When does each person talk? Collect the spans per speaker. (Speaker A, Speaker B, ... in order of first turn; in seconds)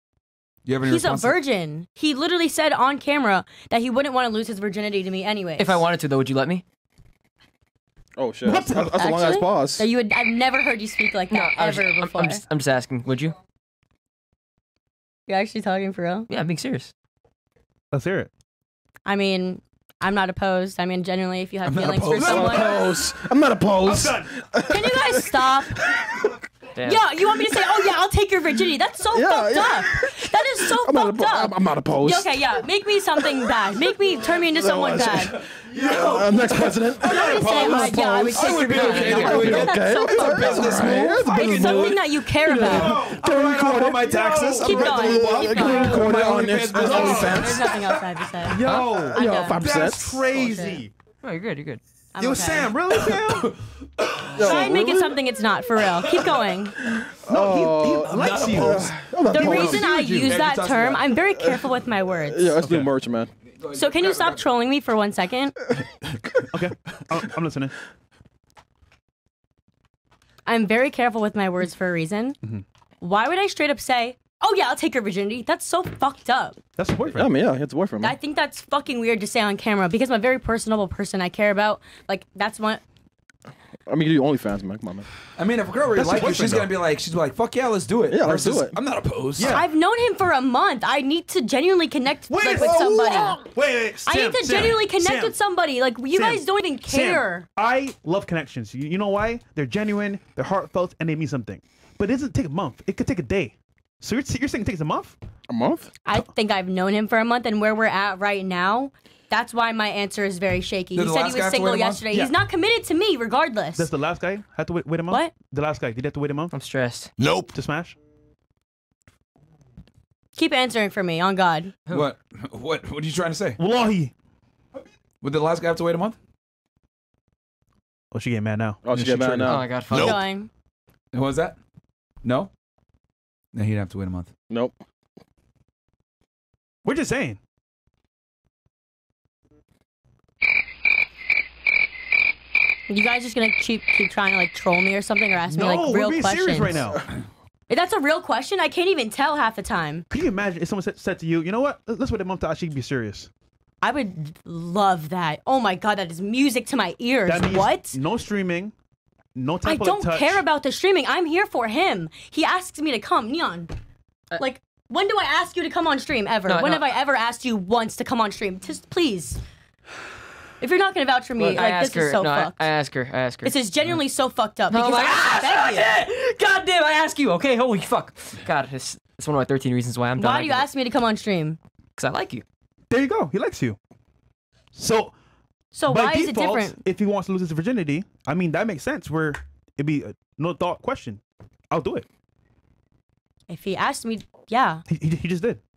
Speaker A: 0.6-1.4, 21.6-22.8, 35.0-42.0, 42.5-47.8, 52.9-54.7, 55.9-56.4, 58.1-58.9, 59.4-61.2, 63.5-64.4, 85.3-89.6, 110.9-112.0, 117.2-117.5, 121.9-123.6, 125.2-126.2, 128.9-130.2, 131.1-131.6, 132.2-132.5, 133.5-134.3
Speaker B: 0.8-5.8, 8.5-12.4, 15.3-16.3, 19.1-22.8, 24.6-25.8, 26.8-35.3, 37.0-43.0, 44.5-46.1, 46.8-50.8, 52.1-52.7, 54.4-56.8, 59.3-62.7, 63.7-65.6, 70.5-72.4, 73.0-76.6, 78.0-82.8, 89.5-93.4, 94.0-97.5, 106.0-113.9, 115.1-115.3, 120.3-121.7, 129.9-130.5, 142.9-146.8, 147.7-150.0, 153.8-158.0, 159.6-163.7, 164.4-169.4, 170.6-172.6, 173.4-175.9, 180.2-181.6, 185.7-186.8, 193.5-194.8
Speaker C: 5.6-6.6, 11.3-13.4, 16.3-16.9, 26.7-27.0, 38.7-39.3, 48.6-49.0, 51.2-51.8, 116.5-117.1, 129.4-130.2, 166.5-166.9, 171.4-173.5, 174.7-180.7, 182.0-182.4
Speaker D: 8.2-9.8, 22.2-25.3, 29.1-32.5, 33.2-33.7, 34.5-37.9, 39.2-47.8, 49.0-50.2, 54.4-55.1, 56.9-59.8, 62.3-63.3, 77.1-78.2, 83.8-85.1, 88.1-88.8, 92.6-93.2, 105.5-105.9, 128.8-129.7, 134.5-134.7
Speaker E: 8.4-8.9, 17.9-18.3, 23.8-24.3, 37.6-38.4, 42.6-47.6, 48.4-50.9, 52.2-53.5, 57.3-60.2, 66.5-67.8, 76.8-77.3, 85.9-86.7, 89.4-89.7, 92.3-95.3, 96.1-105.2, 113.8-116.5, 117.5-118.0, 123.6-124.1, 128.1-128.8, 136.8-137.4, 145.5-147.0, 150.1-153.3, 157.3-158.7, 159.3-160.4, 182.9-183.8, 184.7-185.1, 185.9-192.1, 194.9-195.6